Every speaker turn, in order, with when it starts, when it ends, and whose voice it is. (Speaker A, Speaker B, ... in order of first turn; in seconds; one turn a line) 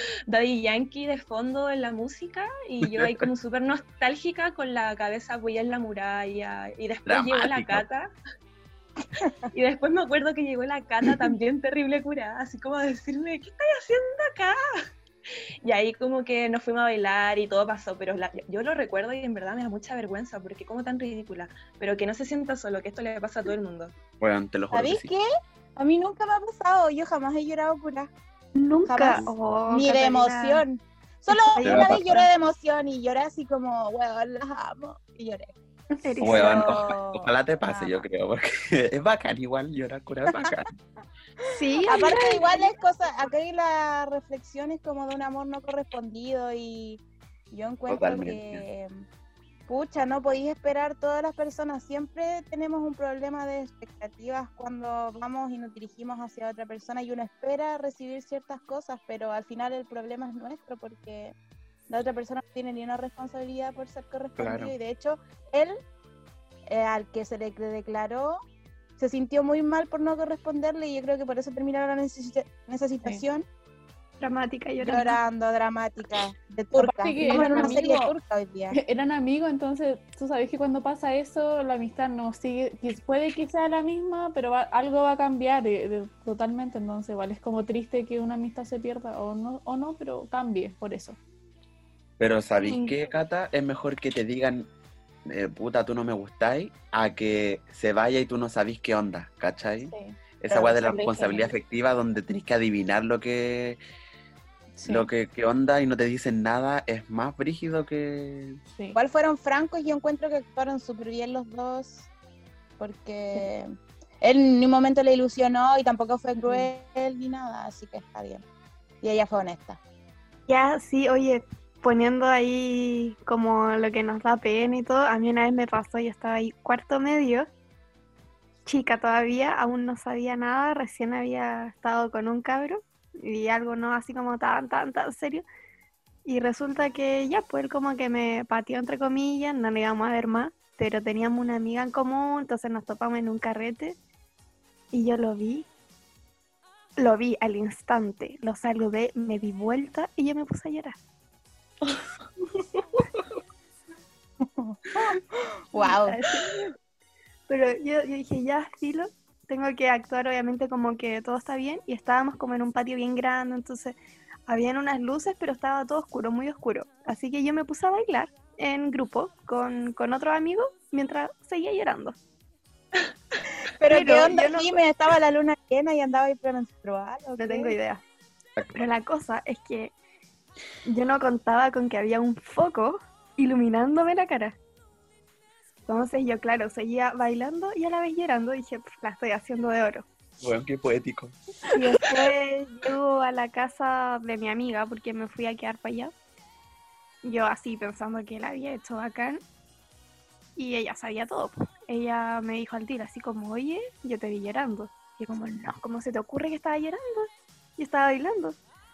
Speaker A: 0.3-8.1
Speaker B: 2.8-3.3
Speaker B: 7.1-7.8
Speaker A: 9.5-14.6
Speaker A: 15.6-23.9
Speaker B: 24.2-25.1
Speaker C: 24.7-25.2
Speaker C: 25.8-28.1
Speaker D: 28.6-30.6
Speaker C: 28.9-38.0
Speaker D: 31.3-32.3
Speaker B: 31.6-32.2
Speaker D: 36.0-36.9
Speaker B: 36.2-40.7
Speaker D: 41.6-42.7
Speaker C: 41.8-48.9
Speaker B: 47.9-48.6
Speaker C: 49.7-61.3
Speaker C: 61.9-65.8
Speaker B: 64.4-64.7
Speaker C: 66.7-68.4
Speaker C: 69.0-73.5
Speaker D: 74.2-75.2
Speaker C: 74.8-78.8
Speaker E: 76.7-78.1
Speaker D: 77.4-77.8
Speaker E: 78.7-91.2
Speaker B: 92.2-94.7
Speaker B: 95.3-103.8
Speaker E: 99.9-101.5
Speaker E: 104.8-105.1
Speaker B: 104.9-108.6
Speaker E: 108.8-109.0
Speaker C: 109.0-112.1
Speaker C: 112.8-113.7
Speaker C: 114.2-118.4
Speaker E: 116.4-116.7
Speaker C: 119.0-119.8
Speaker D: 120.5-127.5
Speaker D: 128.7-135.4
Speaker D: 136.2-144.0
Speaker D: 144.9-145.7
Speaker D: 147.0-151.0
Speaker C: 154.4-156.3
Speaker D: 155.8-156.7
Speaker D: 157.5-164.0
Speaker D: 164.5-172.2
Speaker C: 173.8-177.8
Speaker D: 173.9-174.8
Speaker D: 177.4-178.0
Speaker B: 178.6-178.9
Speaker D: 178.7-179.9
Speaker D: 180.8-184.6
Speaker D: 185.9-190.1
Speaker B: 190.4-191.4
Speaker D: 191.7-196.1
Speaker D: 197.2-199.4
Speaker D: 200.6-208.6